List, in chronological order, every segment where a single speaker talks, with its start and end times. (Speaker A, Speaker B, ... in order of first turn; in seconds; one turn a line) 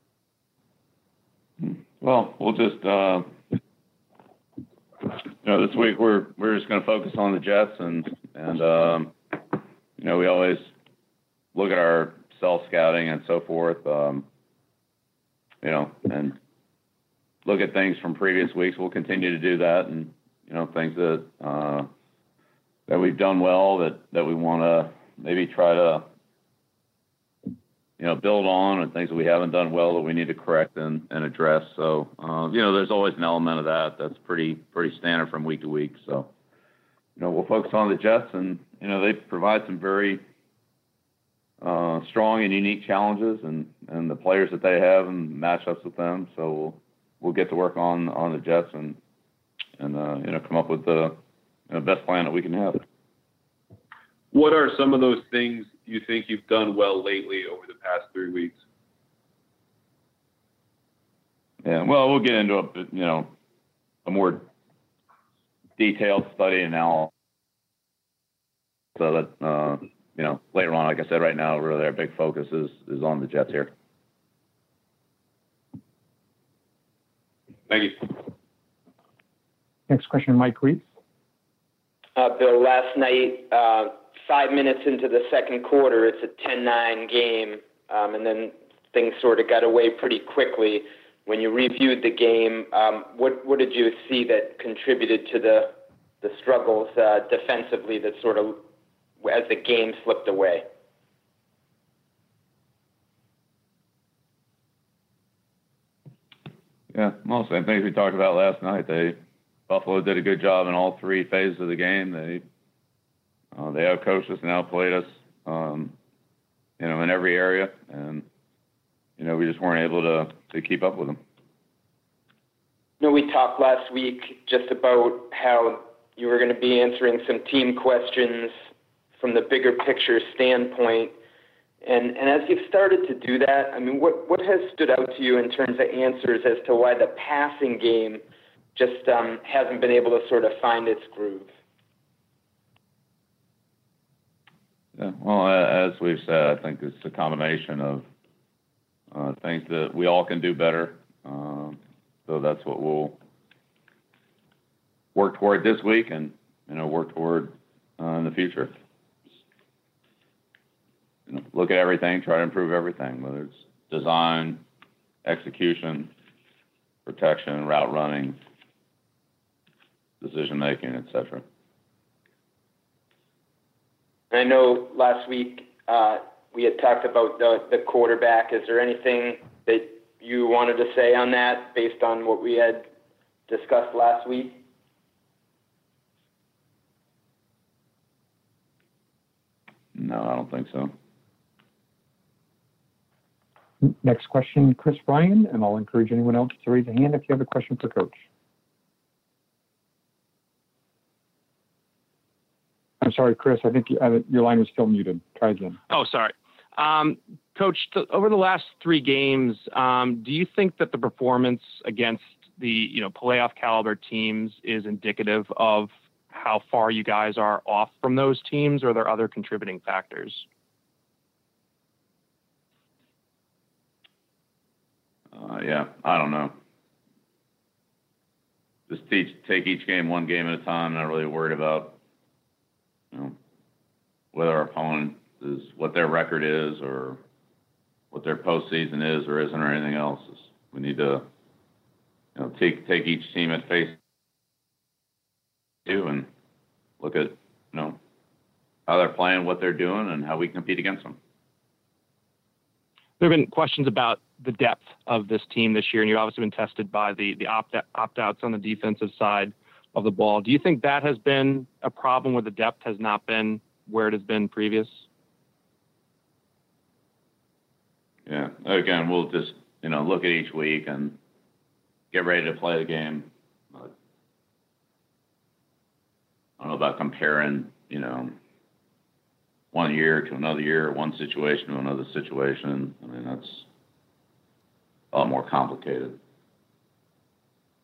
Speaker A: 1.6-3.4
Speaker A: 5.0-10.7
Speaker A: 11.6-14.3
Speaker A: 15.6-16.4
Speaker A: 17.4-21.9
Speaker A: 22.9-26.1
Speaker A: 28.0-36.3
Speaker A: 37.2-40.2
Speaker A: 41.6-49.0
Speaker A: 49.8-52.8
Speaker B: 54.3-58.6
Speaker A: 61.6-63.3
Speaker A: 64.0-64.5
Speaker A: 65.8-67.1
Speaker A: 69.0-73.7
Speaker B: 77.7-78.2
Speaker C: 79.9-80.8
Speaker D: 82.2-98.6
Speaker D: 99.2-100.7
Speaker A: 106.9-109.2
Speaker A: 109.7-112.4
Speaker A: 113.5-116.0
Speaker A: 116.8-118.3
Speaker A: 119.2-121.2
Speaker D: 123.0-128.5
Speaker D: 129.2-131.1
Speaker D: 131.8-138.2
Speaker D: 138.8-141.5
Speaker A: 145.0-148.1
Speaker A: 149.1-153.2
Speaker A: 155.2-158.7
Speaker A: 161.3-164.6
Speaker A: 165.2-166.1
Speaker A: 167.1-168.4
Speaker A: 170.2-171.4
Speaker D: 174.3-182.9
Speaker D: 183.5-184.6
Speaker A: 189.9-190.9
Speaker C: 193.8-198.2
Speaker C: 203.0-205.8
Speaker E: 205.9-220.5
Speaker A: 225.3-226.5
Speaker A: 228.9-232.0
Speaker A: 234.3-237.2
Speaker A: 238.1-241.3
Speaker A: 242.4-244.0
Speaker A: 245.9-246.3
Speaker A: 247.0-248.0
Speaker A: 248.9-251.2
Speaker E: 253.2-265.0
Speaker A: 268.3-271.2
Speaker A: 272.1-273.9
Speaker A: 276.6-278.3
Speaker A: 279.7-283.7
Speaker A: 285.1-286.2